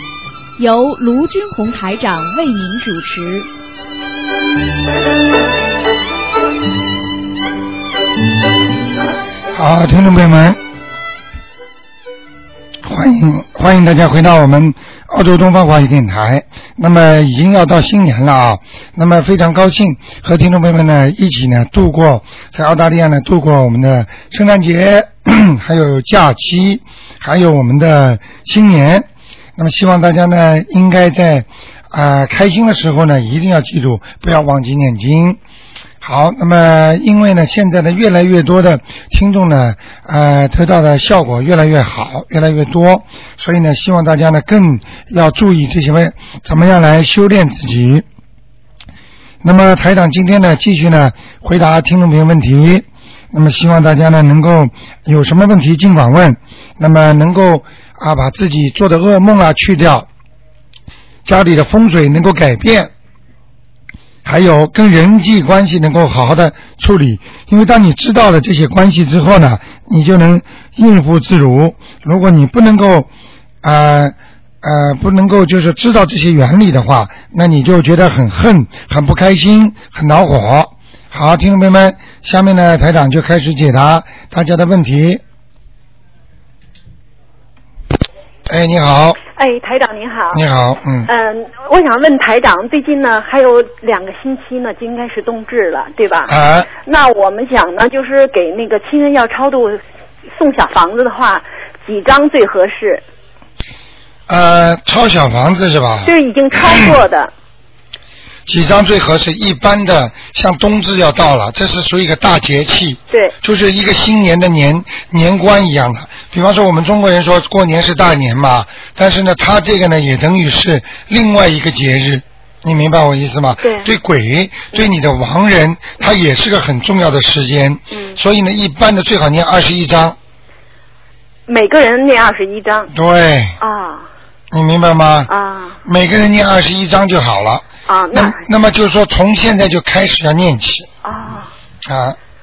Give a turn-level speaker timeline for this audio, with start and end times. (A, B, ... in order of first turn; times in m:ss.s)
0:00.6-0:03.5 A
0:09.5-0:10.6 B
0:12.8-0:35.4 B
0:36.0-0:48.0 B
0:49.4-1:00.1 B
1:01.2-1:02.9 B
1:04.2-1:13.1 B
1:13.6-1:25.2 B
1:28.5-1:29.2 B
1:29.4-1:30.4 C
1:30.3-1:31.1 B
1:31.1-1:43.0 C
1:36.3-1:36.7 B
1:44.3-1:46.9 B
1:46.0-1:47.3 C
1:48.5-2:10.2 B
2:03.6-2:03.9 C
2:07.9-2:08.2 C
2:11.5-2:12.9 C
2:12.9-2:13.6 B
2:13.6-2:14.1 C
2:14.5-2:15.3 B
2:15.3-2:15.8 C
2:15.8-2:20.9 B
2:17.9-2:18.4 C
2:21.0-2:21.5 C
2:21.8-2:22.2 B